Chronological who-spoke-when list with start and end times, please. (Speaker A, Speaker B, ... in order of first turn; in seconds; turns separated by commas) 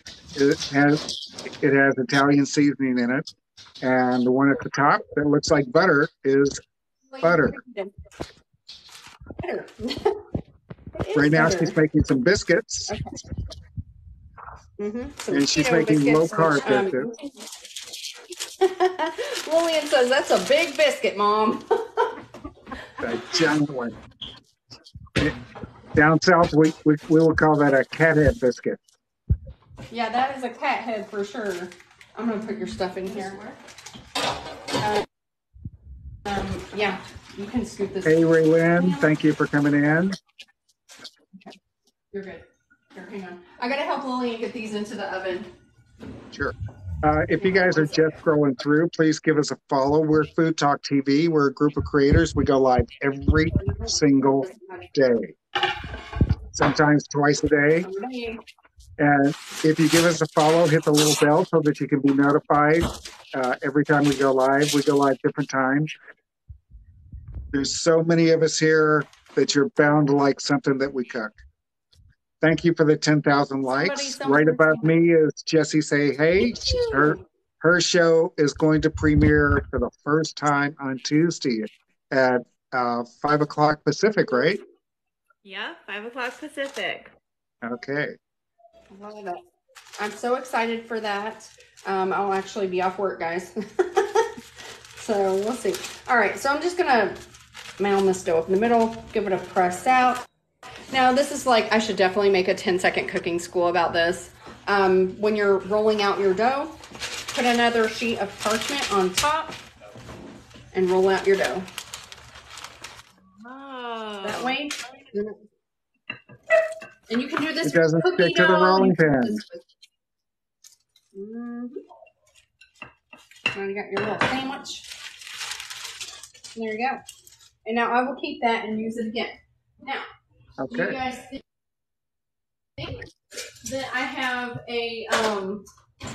Speaker A: 0.3-1.0, Speaker A: 1.6-3.3, Speaker A: 3.8-6.6, Speaker B: 7.1-7.9, Speaker A: 7.2-7.5, Speaker B: 9.4-10.2, Speaker B: 11.0-11.8, Speaker A: 11.2-12.9, Speaker B: 12.9-13.2, Speaker B: 14.8-17.3, Speaker A: 15.3-17.1, Speaker B: 18.6-22.2, Speaker A: 23.0-23.9, Speaker A: 26.0-28.8, Speaker B: 29.9-33.6, Speaker B: 34.8-35.1, Speaker B: 36.2-38.2, Speaker A: 38.0-40.2, Speaker B: 38.7-39.2, Speaker B: 42.1-45.5, Speaker A: 46.3-55.4, Speaker B: 47.4-48.1, Speaker B: 53.7-54.9, Speaker A: 56.5-57.9, Speaker B: 57.8-58.4, Speaker A: 59.0-65.9, Speaker A: 67.5-71.4, Speaker A: 72.4-84.6, Speaker B: 73.7-75.0, Speaker B: 76.8-77.1, Speaker C: 85.4-87.1, Speaker A: 87.6-88.2, Speaker B: 88.9-89.4, Speaker B: 90.0-94.3, Speaker B: 95.0-97.2, Speaker B: 97.8-100.2, Speaker B: 100.9-106.8, Speaker B: 107.3-109.6, Speaker B: 110.7-111.7, Speaker C: 113.4-114.6, Speaker B: 114.2-115.4, Speaker B: 117.1-119.6, Speaker A: 117.6-119.4, Speaker B: 121.1-121.8, Speaker B: 123.5-124.9, Speaker B: 126.5-127.0, Speaker B: 127.7-130.1, Speaker A: 130.6-131.0, Speaker B: 130.7-131.4, Speaker B: 132.8-133.1, Speaker B: 133.6-135.7